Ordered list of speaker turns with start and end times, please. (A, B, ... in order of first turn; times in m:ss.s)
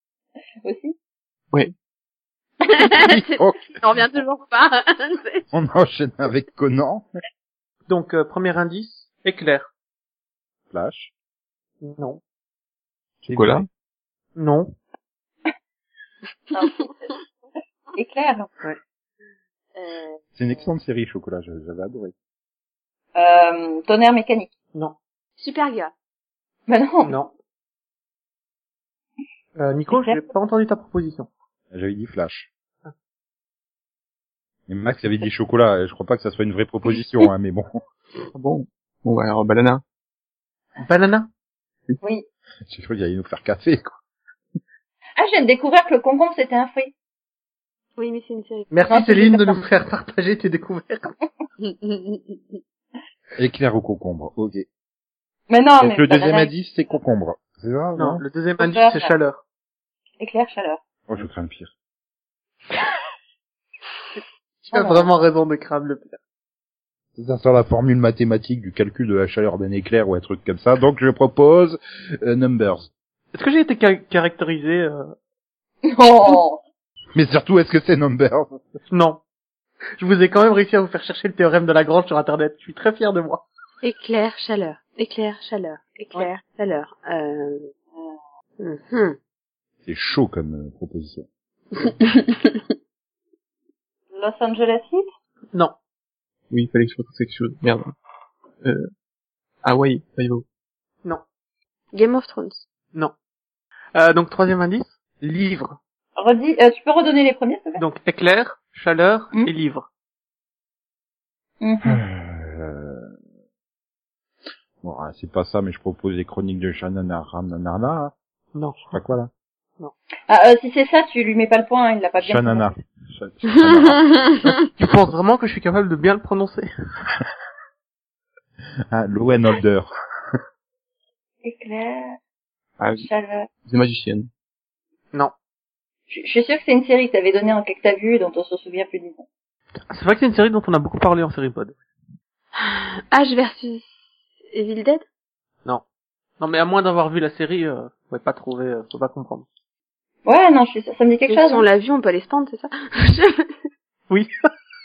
0:00.6-0:01.0 A
0:02.7-0:05.4 B
0:03.0-0:03.9 C
0:05.5-0:07.1 C
0:07.9-0:09.7 D
0:10.7-0:11.1 C
0:11.8-0:12.2 D
0:13.2-0:13.7 C
0:13.3-0:13.6 E
0:14.4-0:14.7 D
0:16.5-0:17.2 A
0:18.0-0:18.5 A
0:19.8-0:20.1 B
0:20.4-0:22.1 C
0:23.2-0:24.5 A
0:25.4-0:25.9 B
0:26.7-0:27.2 A
0:27.0-0:27.3 D
0:29.6-0:31.3 D
0:29.9-0:30.2 A
0:31.7-0:32.5 C
0:34.7-0:37.8 C
0:38.3-0:39.8 E
0:40.8-0:41.3 D
0:42.0-0:42.3 A
0:42.7-0:44.0 C
0:45.2-0:46.9 A
0:48.0-0:48.7 B
0:48.7-0:51.1 D
0:48.9-0:49.6 A
0:51.6-0:52.6 B
0:53.4-0:54.6 C
0:55.5-0:56.5 A
0:55.8-0:58.2 C
0:58.0-0:59.4 D
0:58.6-0:59.1 A
1:00.2-1:00.8 A
1:01.1-1:01.7 C
1:04.6-1:06.2 D
1:04.7-1:05.1 A
1:07.2-1:12.9 C
1:13.3-1:15.1 D
1:15.8-1:16.6 A
1:17.2-1:18.7 C
1:18.9-1:19.2 D
1:20.0-1:23.4 D
1:23.8-1:27.7 B
1:28.6-1:29.2 B
1:29.8-1:31.3 C
1:32.2-1:32.5 B
1:34.1-1:35.1 A
1:36.5-1:37.9 E
1:38.6-1:38.9 E
1:39.6-1:40.4 E
1:41.9-1:42.6 B
1:44.0-1:45.8 D
1:46.2-1:47.8 A
1:47.8-1:49.9 D
1:51.6-1:52.0 A
1:51.8-1:53.1 C
1:54.8-1:58.1 C
1:58.6-1:59.0 D
1:58.9-1:59.3 C
2:00.3-2:02.7 A
2:02.2-2:04.2 C
2:03.7-2:04.4 B
2:04.6-2:06.7 D
2:08.9-2:09.9 C
2:11.4-2:12.2 A
2:12.8-2:13.1 E
2:13.0-2:13.5 A
2:13.7-2:14.3 E
2:16.1-2:19.2 A
2:19.9-2:21.8 D
2:22.6-2:24.0 B
2:24.5-2:25.0 B
2:26.4-2:29.5 D
2:30.2-2:31.7 A
2:31.3-2:33.5 B
2:34.1-2:34.3 D